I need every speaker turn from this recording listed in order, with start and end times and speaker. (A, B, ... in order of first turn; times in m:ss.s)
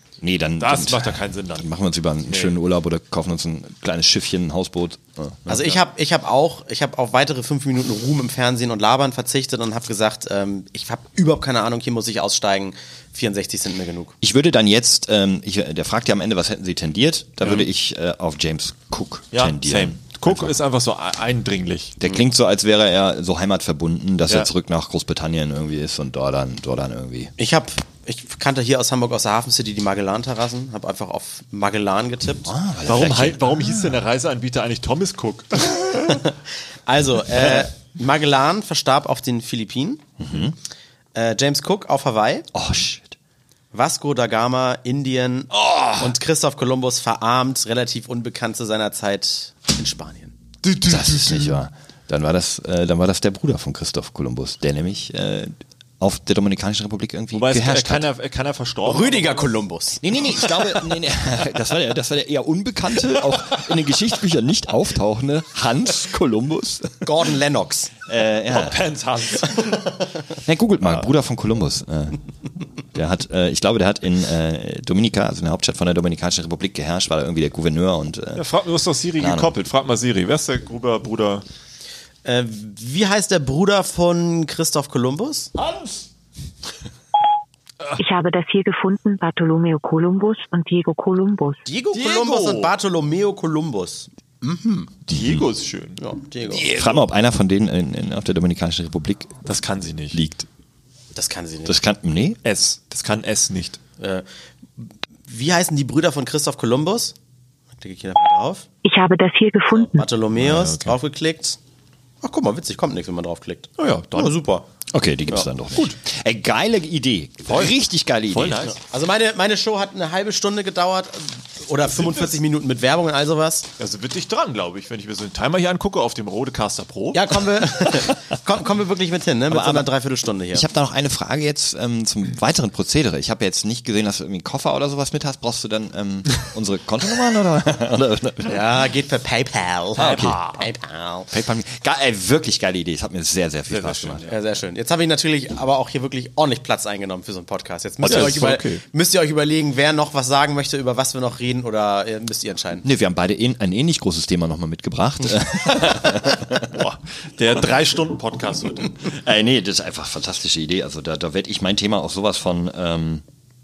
0:00.2-0:05.8 A
0:00.6-0:01.7 B
0:02.3-0:02.5 B
0:05.5-0:14.2 C
0:14.2-0:20.6 A
0:17.4-0:17.7 B
0:19.3-0:22.0 B
0:22.0-0:27.3 A
0:27.4-0:32.5 C
0:32.4-0:34.0 A
0:32.8-0:36.0 B
0:36.0-0:36.3 C
0:36.9-0:40.0 C
0:40.2-0:40.6 A
0:41.2-0:42.5 C
0:42.5-0:43.2 A
0:43.7-0:50.4 C
0:45.8-0:46.0 A
0:50.6-0:51.6 B
0:50.8-0:58.1 A
0:57.3-0:59.5 B
0:58.8-1:00.7 C
1:00.0-1:07.0 A
1:07.0-1:07.9 C
1:08.1-1:08.8 A
1:08.5-1:09.9 B
1:10.4-1:12.2 A
1:12.9-1:18.5 A
1:18.4-1:21.4 B
1:19.2-1:19.6 A
1:22.2-1:25.5 C
1:25.6-1:26.0 B
1:28.0-1:31.6 D
1:31.7-1:34.9 C
1:31.9-1:32.7 B
1:35.1-1:36.0 B
1:35.1-1:35.4 A
1:36.0-1:36.9 C
1:36.5-1:39.4 A
1:39.4-1:40.2 B
1:40.1-1:40.5 A
1:41.2-1:41.8 C
1:41.7-1:42.4 A
1:42.4-1:43.8 B
1:44.0-1:44.2 C
1:45.3-1:47.1 C
1:47.8-1:48.7 C
1:48.8-1:50.1 D
1:49.8-1:51.6 C
1:50.4-1:51.0 B
1:52.2-1:54.7 C
1:53.8-1:54.4 B
1:54.9-1:58.7 A
1:55.7-1:56.0 B
1:57.5-1:57.7 B
1:58.3-1:58.8 B
1:58.8-2:03.7 C
2:01.9-2:02.4 B
2:03.8-2:07.6 B
2:07.1-2:10.6 C
2:09.5-2:09.9 A
2:10.5-2:18.7 A
2:18.5-2:21.3 C
2:20.0-2:20.5 A
2:20.0-2:20.7 B
2:21.3-2:24.2 A
2:23.7-2:24.6 B
2:24.3-2:32.9 C
2:28.0-2:28.5 A
2:28.0-2:28.8 B
2:32.8-2:36.8 A
2:36.6-2:39.0 B
2:39.1-2:43.2 A